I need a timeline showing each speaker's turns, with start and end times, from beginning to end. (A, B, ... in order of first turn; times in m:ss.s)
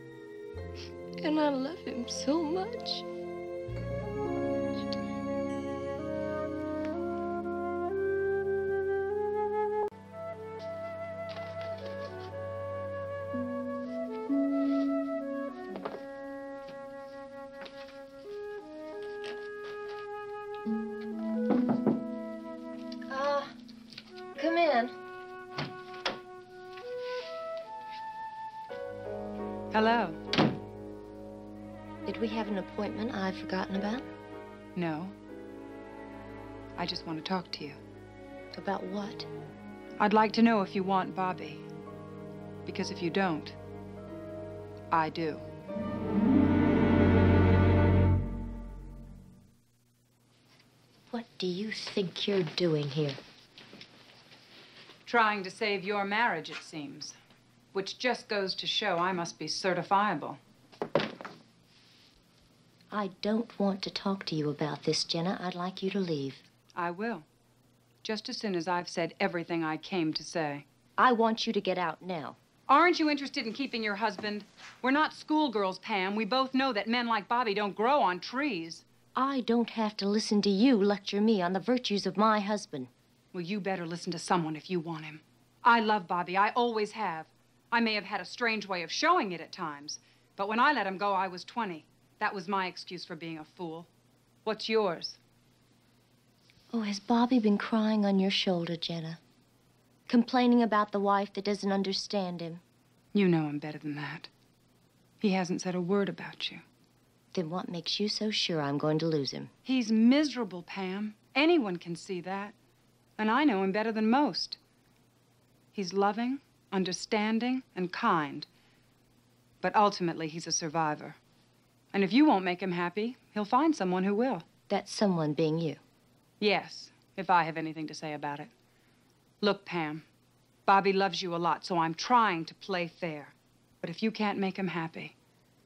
0:01.2-0:03.0 A
0:23.1-0:23.5 A
0:24.4-0:24.9 A
0:29.7-0:30.2 B
0:32.0-0:34.1 A
0:34.7-0:35.1 B
0:36.8-0:37.8 B
0:38.5-0:39.3 A
0:40.0-0:41.6 B
0:42.6-0:43.6 B
0:44.9-0:45.4 B
0:51.1-0:53.2 A
0:55.0-0:57.2 B
0:57.7-1:00.4 B
1:02.9-1:06.4 A
1:06.8-1:07.2 B
1:08.0-1:10.6 B
1:11.0-1:12.4 A
1:12.7-1:18.8 B
1:19.2-1:22.9 A
1:23.3-1:33.9 B
1:34.4-1:35.2 B
1:36.7-1:39.2 A
1:40.1-1:42.6 A
1:43.1-1:44.3 B
1:45.2-1:46.6 B
1:47.3-1:49.5 A
1:49.6-1:52.5 B
1:53.2-1:54.6 B
1:55.7-1:58.5 B
1:59.6-2:01.2 B
2:01.9-2:04.4 B
2:04.7-2:05.8 A
2:06.4-2:08.5 B
2:09.4-2:10.0 B
2:10.7-2:15.1 B